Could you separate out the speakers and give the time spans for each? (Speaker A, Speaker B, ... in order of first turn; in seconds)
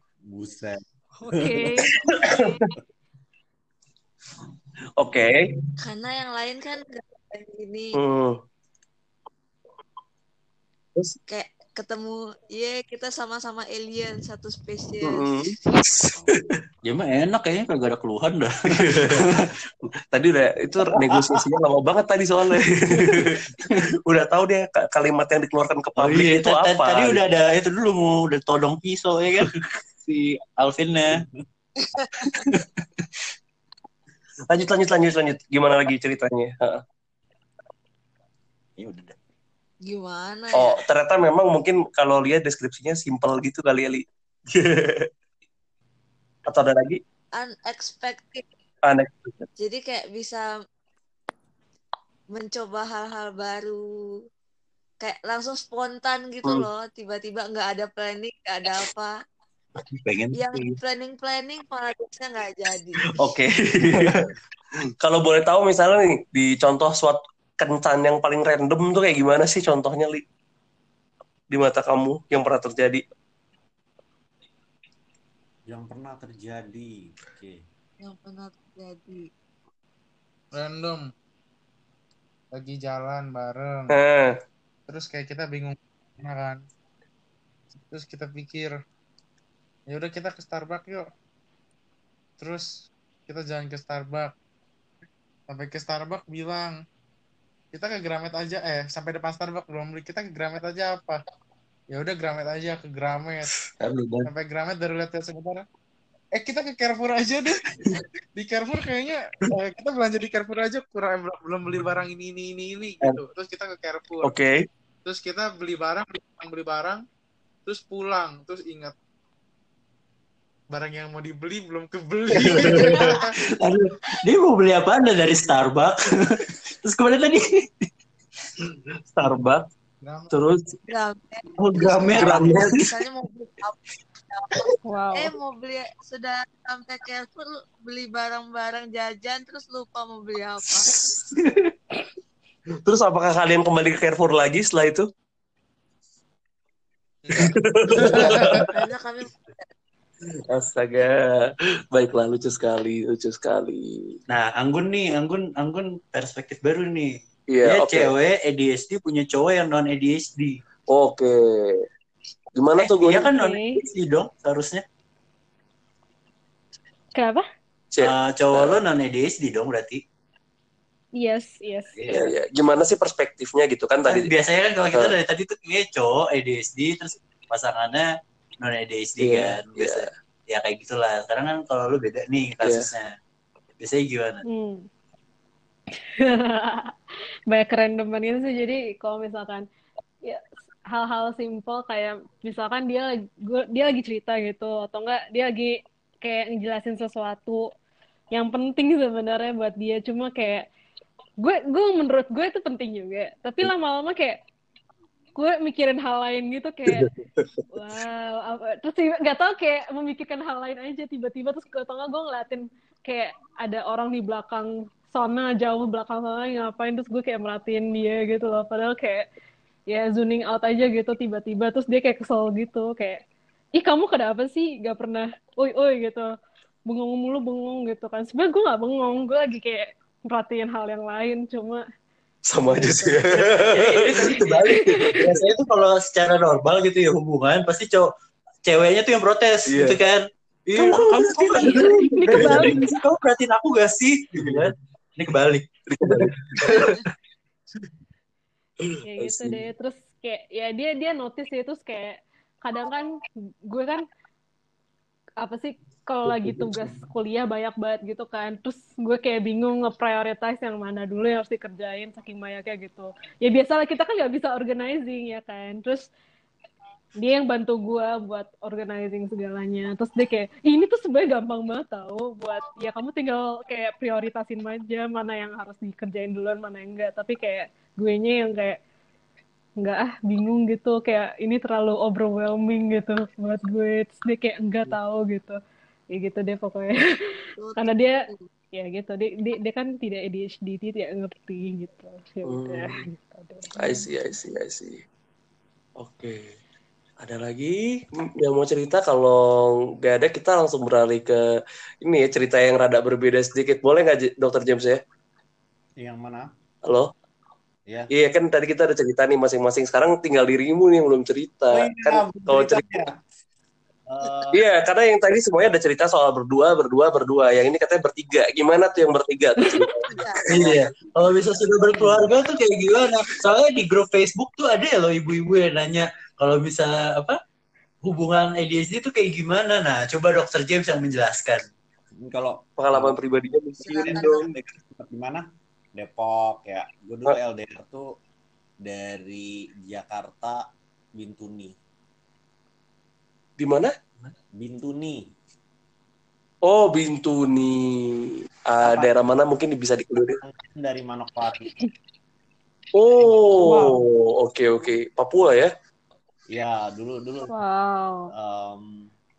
Speaker A: 0.2-1.8, 75.7-77.6, 306.0-306.5, 311.7-313.2, 314.1-314.6, 332.2-333.2, 334.0-338.1, 338.8-341.7, 344.5-345.3, 348.8-349.1, 350.3-351.7, 353.2-353.8, 356.5-357.5, 358.3-359.1
Speaker B: 1.2-2.6, 134.8-135.3, 163.2-163.8, 167.1-167.4, 171.2-172.3, 184.5-184.9, 186.2-186.9, 187.5-189.7, 190.2-197.7, 198.3-200.7, 201.4-204.4, 205.3-207.1, 207.7-219.3, 219.9-223.2, 223.8-226.3, 226.9-231.8, 234.4-235.2, 240.9-242.9, 249.1-254.0, 255.4-266.1, 267.2-278.8, 279.8-285.6, 286.1-287.0, 287.8-288.2, 288.7-294.1, 353.6-354.0, 357.5-358.3
Speaker C: 1.9-2.4, 5.0-5.5, 8.0-8.4, 15.0-16.0, 18.7-19.2, 20.1-23.4, 24.1-27.2, 34.5-36.8, 40.5-45.1, 46.5-47.0, 48.9-49.5, 63.2-64.2, 65.0-70.2, 71.5-73.0, 83.9-84.3, 114.2-114.5, 122.3-123.0, 129.1-129.6, 130.3-130.7, 132.1-132.8, 142.8-145.1, 147.3-148.7, 150.5-154.2, 157.5-158.1, 160.9-161.8, 162.5-163.3, 167.9-168.8, 172.1-174.3, 179.2-180.1, 206.9-207.5, 232.5-235.4, 239.7-240.0, 240.8-242.8, 244.3-244.6, 245.9-247.1, 248.8-249.6, 256.4-256.9, 292.4-293.0, 293.7-295.0, 296.0-296.5, 297.2-301.4, 302.0-305.0, 308.1-312.8, 314.5-320.8, 332.8-334.4, 343.6-343.9, 346.6-350.4, 353.0-355.7
Speaker D: 5.8-8.0, 11.3-16.1, 39.8-40.8, 47.4-48.4, 49.6-50.5, 52.3-53.8, 55.0-59.1, 60.3-63.0, 78.0-79.3, 122.8-123.1, 130.9-140.9, 148.1-149.3, 287.6-288.5, 320.1-320.7, 333.8-334.5
Speaker E: 16.8-19.5, 26.0-31.2, 32.2-32.8, 38.8-39.1, 59.9-60.7, 63.8-64.2, 103.8-104.3, 123.5-127.9, 131.6-132.9, 141.3-141.7, 154.3-160.6, 162.8-164.8, 168.0-170.0, 174.0-178.1, 178.6-183.1, 183.8-184.4, 232.8-238.1, 238.6-246.9, 320.5-327.4, 328.0-331.6
Speaker F: 80.5-81.0, 82.5-83.9, 84.9-86.6, 87.8-88.7, 89.9-91.1, 92.4-94.3, 95.5-96.8, 97.7-101.2, 101.9-103.5, 104.2-105.6, 106.3-107.6, 108.3-114.3, 115.0-117.0, 117.7-118.9, 120.7-123.3, 130.0-130.3, 147.2-148.7